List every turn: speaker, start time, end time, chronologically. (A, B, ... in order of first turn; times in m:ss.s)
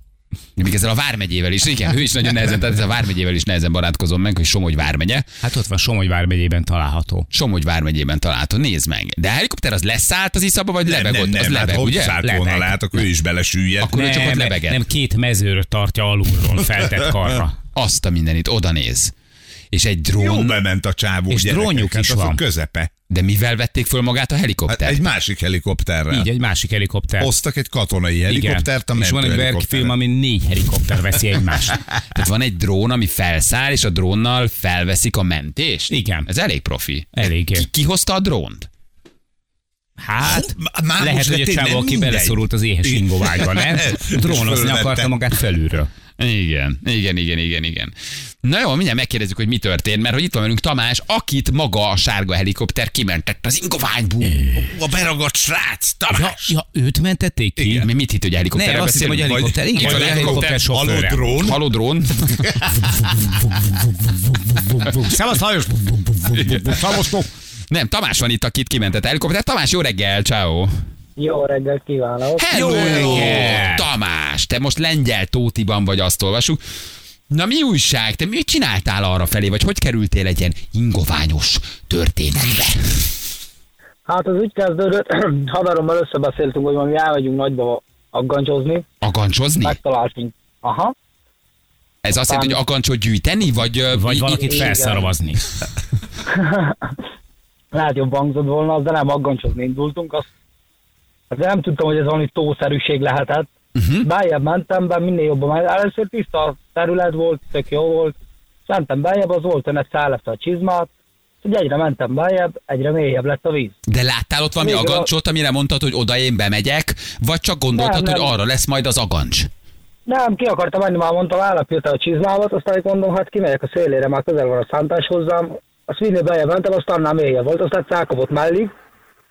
0:00.6-0:05.2 A
0:05.4-0:07.3 B
0:07.3-0:12.2 A
0:10.9-0:14.0 C
0:12.2-0:13.0 B
0:13.8-0:14.8 A
0:13.9-0:17.6 B
0:17.8-0:19.1 A
0:19.7-0:20.6 A
0:20.2-0:22.9 C
0:21.3-0:22.4 B
0:23.1-0:25.0 A
0:24.7-0:26.3 C
0:26.1-0:27.3 B
0:27.2-0:30.0 C
0:28.3-0:31.8 B
0:32.1-0:38.7 A
0:35.9-0:36.3 B
0:37.2-0:37.7 B
0:40.0-0:45.9 B
0:40.2-0:45.1 C
0:46.2-0:54.5 A
0:54.5-0:56.4 C
0:56.1-0:57.8 B
0:57.6-0:57.9 C
0:57.8-1:00.7 A
0:58.5-1:01.3 B
0:59.2-1:01.6 C
1:01.3-1:02.5 A
1:02.4-1:02.8 C
1:02.8-1:07.3 B
1:06.3-1:07.1 A
1:07.7-1:10.7 A
1:11.2-1:13.2 D
1:12.4-1:16.6 A
1:12.5-1:13.9 B
1:12.5-1:13.5 C
1:17.3-1:22.8 A
1:24.1-1:28.8 D
1:29.0-1:29.8 A
1:29.6-1:30.9 D
1:32.0-1:34.7 A
1:32.3-1:32.6 D
1:33.9-1:35.4 B
1:34.3-1:35.1 D
1:36.3-1:36.9 D
1:37.7-1:40.3 D
1:41.3-1:43.5 D
1:43.8-1:44.1 A
1:44.0-1:50.9 D
1:51.4-1:53.7 D
1:53.9-1:59.5 A
1:54.6-1:55.1 D
1:57.8-1:58.3 D
2:00.1-2:08.7 D